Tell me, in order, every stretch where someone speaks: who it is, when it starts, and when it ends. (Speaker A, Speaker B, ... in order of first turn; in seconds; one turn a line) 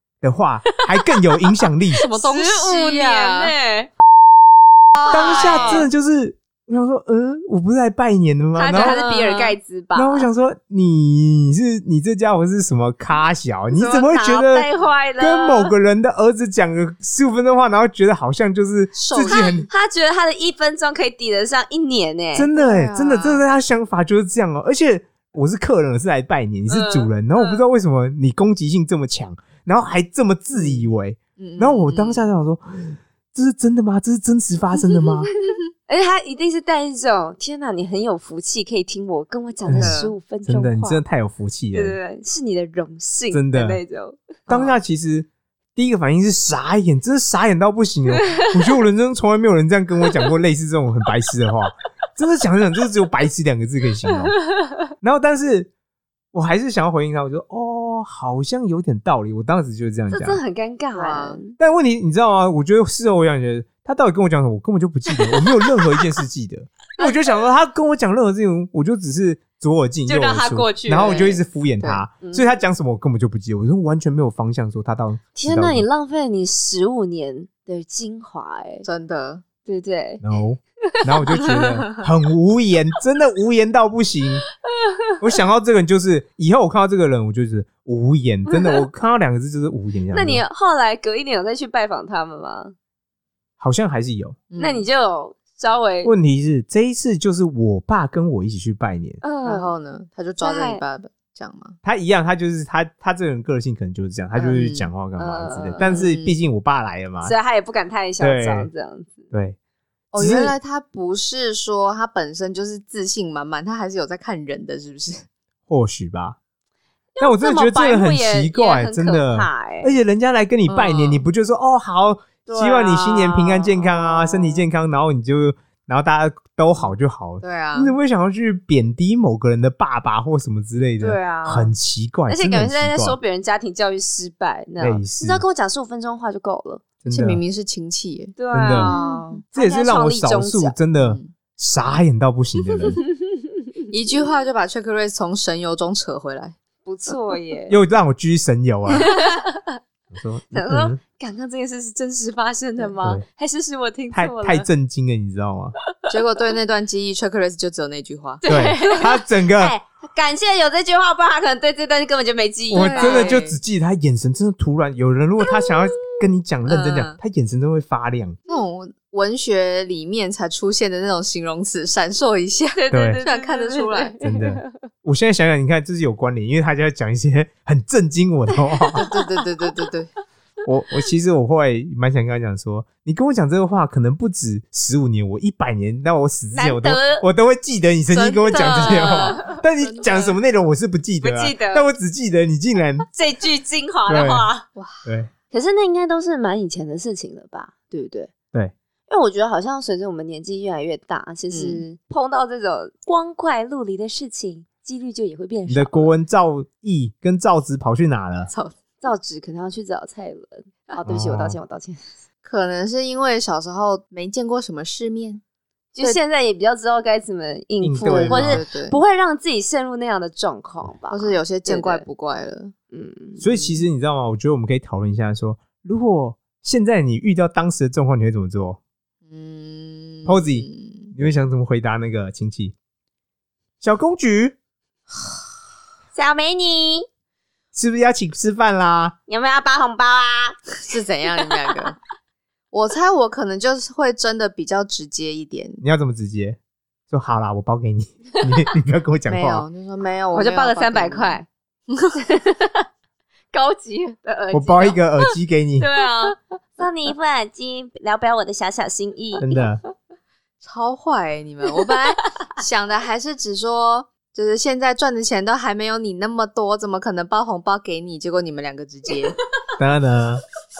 Speaker A: 0.2-2.0
Speaker B: 2.0-3.5
Speaker C: 2.1-3.9
Speaker B: 4.9-5.9
Speaker C: 5.0-5.9
Speaker A: 5.1-9.2
Speaker C: 8.6-10.3
Speaker B: 8.8-9.6
Speaker A: 9.9-14.7
Speaker C: 13.7-15.7
Speaker A: 15.2-19.7
Speaker B: 18.9-19.6
Speaker C: 19.2-22.5
Speaker A: 22.4-35.3
Speaker B: 22.5-23.4
Speaker C: 26.7-27.6
Speaker B: 31.4-32.3
Speaker C: 35.9-41.0
Speaker A: 39.7-42.0
Speaker B: 39.7-40.1
Speaker C: 41.7-44.4
Speaker A: 43.3-43.8
Speaker A: 44.5-54.4
Speaker B: 44.5-44.8
Speaker A: 55.0-55.7
Speaker A: 56.3-60.4
Speaker C: 60.1-61.6
Speaker B: 60.9-61.4
Speaker A: 61.6-75.9
Speaker C: 70.1-71.4
Speaker C: 72.2-72.5
Speaker C: 75.4-78.9
Speaker B: 78.8-79.4
Speaker C: 79.7-80.2
Speaker A: 80.2-84.5
Speaker B: 81.4-82.0
Speaker C: 84.8-85.1
Speaker A: 85.2-90.4
Speaker C: 88.5-88.8
Speaker C: 90.1-92.8
Speaker A: 93.6-94.4
Speaker B: 94.5-94.9
Speaker C: 94.6-96.1
Speaker A: 96.0-99.2
Speaker C: 99.2-99.7
Speaker B: 99.4-101.8
Speaker C: 100.4-100.8
Speaker A: 101.8-107.3
Speaker B: 104.3-104.9
Speaker C: 105.2-106.0
Speaker B: 105.8-106.3
Speaker C: 107.2-109.3
Speaker A: 108.2-108.7
Speaker A: 109.3-109.6
Speaker B: 110.1-115.2
Speaker A: 110.2-110.5
Speaker A: 115.7-116.4
Speaker C: 117.2-119.9
Speaker A: 117.2-133.2
Speaker B: 120.7-121.2
Speaker C: 122.5-124.6
Speaker B: 127.4-128.0
Speaker C: 131.0-131.7
Speaker C: 132.3-136.8
Speaker A: 134.8-135.4
Speaker A: 137.0-137.4
Speaker B: 137.1-139.2
Speaker C: 138.4-140.8
Speaker A: 138.5-138.9
Speaker A: 139.6-143.0
Speaker B: 141.0-141.3
Speaker B: 143.9-146.6
Speaker C: 146.8-147.8
Speaker A: 147.7-149.1
Speaker C: 148.9-149.8
Speaker A: 150.1-151.0
Speaker C: 150.5-154.7
Speaker A: 153.0-153.2
Speaker A: 154.1-155.7
Speaker B: 156.1-158.4
Speaker C: 158.4-163.4
Speaker A: 158.5-159.8
Speaker A: 162.7-168.4
Speaker B: 162.7-163.6
Speaker B: 166.7-167.2
Speaker B: 168.5-174.2
Speaker C: 172.8-174.8
Speaker A: 172.9-173.2
Speaker A: 174.2-179.0
Speaker C: 178.7-179.4
Speaker B: 178.9-180.1
Speaker A: 180.7-193.1
Speaker C: 186.5-187.2
Speaker B: 188.1-190.3
Speaker C: 188.5-190.3
Speaker C: 191.2-191.9
Speaker C: 193.1-194.7
Speaker A: 194.1-194.5
Speaker B: 194.8-195.1
Speaker A: 195.1-195.3
Speaker C: 195.5-198.3
Speaker C: 199.1-206.1
Speaker B: 201.5-201.8
Speaker A: 205.7-208.5
Speaker C: 209.0-212.1
Speaker A: 211.1-211.6
Speaker B: 212.4-215.4
Speaker C: 215.9-222.1
Speaker A: 217.8-218.6
Speaker B: 218.0-219.0
Speaker B: 221.1-222.7
Speaker C: 222.9-223.4
Speaker A: 223.4-228.8
Speaker B: 223.5-223.8
Speaker B: 229.3-231.1
Speaker A: 230.3-232.7
Speaker A: 233.8-234.6
Speaker C: 236.1-237.1
Speaker A: 237.7-239.2
Speaker C: 239.3-240.7
Speaker B: 240.9-242.0
Speaker B: 242.7-245.8
Speaker A: 245.8-246.6
Speaker A: 247.1-249.7
Speaker B: 249.3-252.2
Speaker C: 250.3-251.5
Speaker C: 252.2-252.9
Speaker C: 253.5-259.5
Speaker A: 254.5-255.9
Speaker B: 256.0-256.4
Speaker A: 259.4-259.8
Speaker B: 260.6-269.4
Speaker A: 269.8-270.4